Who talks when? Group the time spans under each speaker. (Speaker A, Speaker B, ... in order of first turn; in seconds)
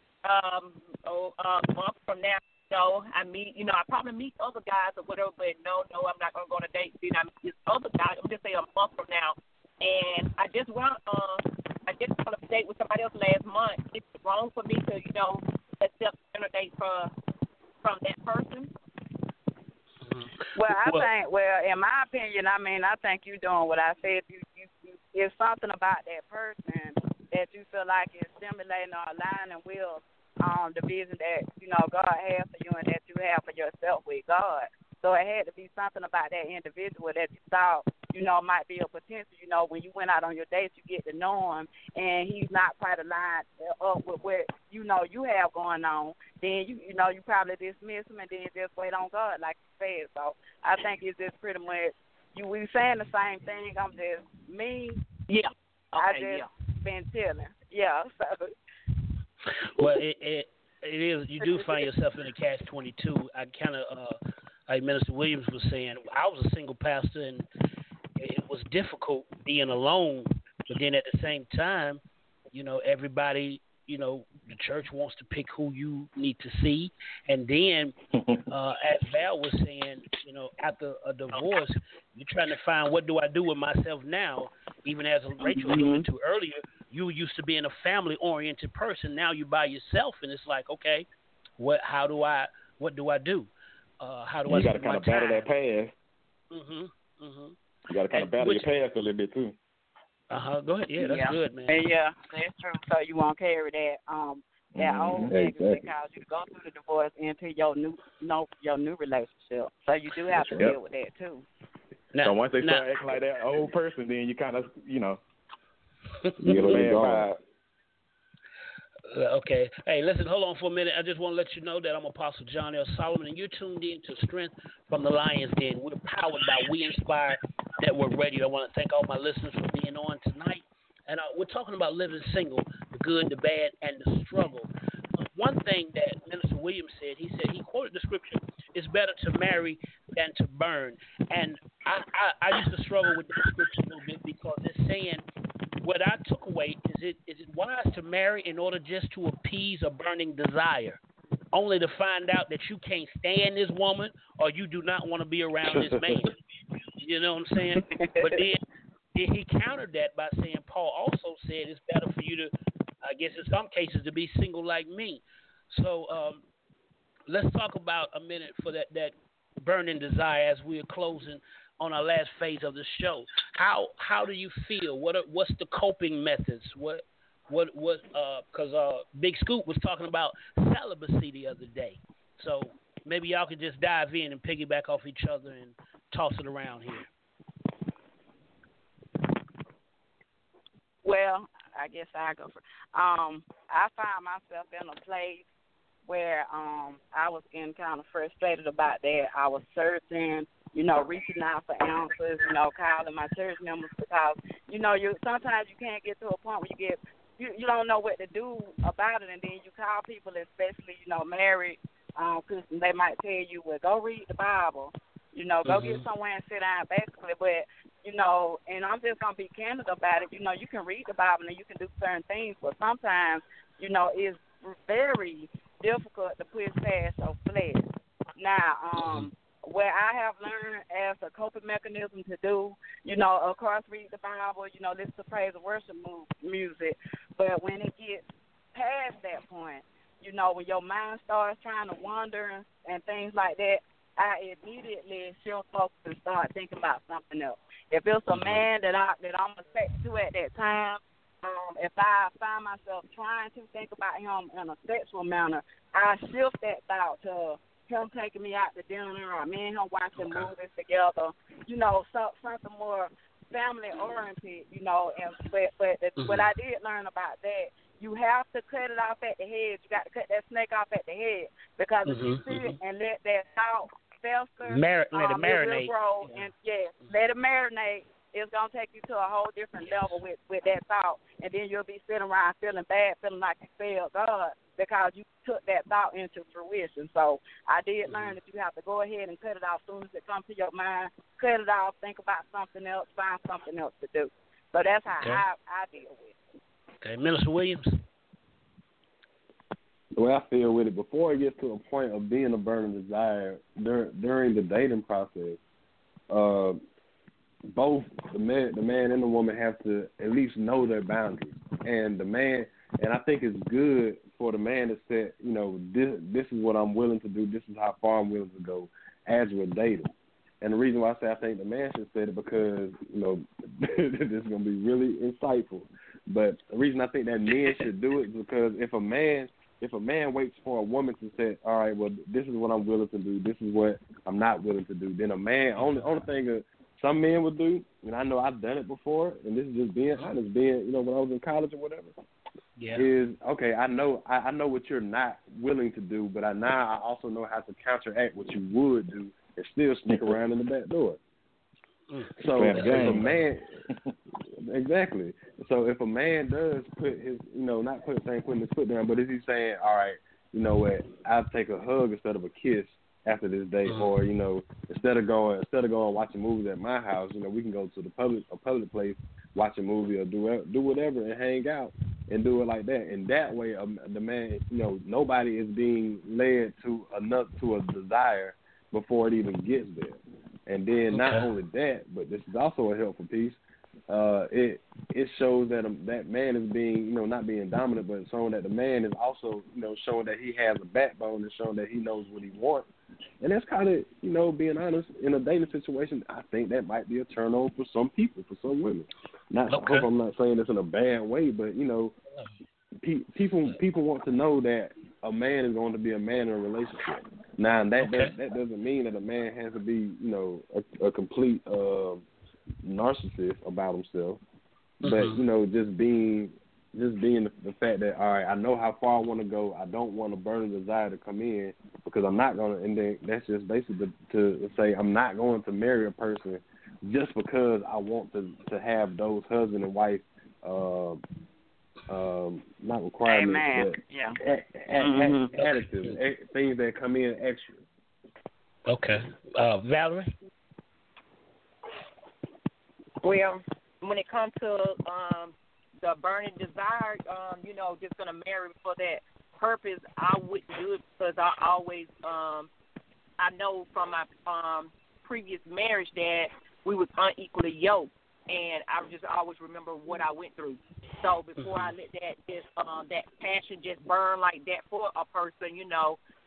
Speaker A: 0.2-17.1, 17.8-18.7, 55.3-56.5, 443.2-452.7, 453.4-466.2
Speaker B: 20.0-21.1, 59.8-64.2, 64.7-67.5, 68.2-72.0, 72.5-78.0, 78.5-91.0, 91.6-95.5, 96.5-97.5, 98.1-98.7, 100.3-101.8, 112.1-112.8, 116.5-116.8, 119.1-145.2, 145.8-151.0, 151.5-158.6, 159.1-162.5, 163.0-166.4, 167.3-187.1, 215.7-216.0, 229.0-229.3, 248.3-248.6, 260.2-260.5, 266.2-266.5, 272.1-272.8, 274.6-276.5, 279.8-280.2, 288.1-288.4, 297.0-298.0, 335.8-336.2, 342.8-343.1, 352.1-353.4, 381.1-381.5, 399.7-400.1, 408.0-408.3, 415.0-415.4, 435.6-436.2, 438.9-440.3, 461.6-461.9
Speaker C: 20.6-55.0, 56.0-58.5, 85.4-86.0, 101.0-111.5, 157.9-158.3, 191.1-195.4, 196.1-296.4, 433.3-434.4, 435.0-435.5
Speaker D: 94.5-95.9, 97.9-99.5, 104.8-105.3, 112.2-115.2, 116.5-117.4, 350.1-350.4, 352.5-353.3
Speaker E: 105.3-105.9, 110.3-110.7, 116.4-117.3, 300.1-305.6, 306.3-306.8, 307.7-342.1, 342.9-351.2, 352.4-353.8, 354.6-392.9, 393.4-402.1, 403.0-412.3, 412.8-414.4, 415.0-431.2, 432.1-437.8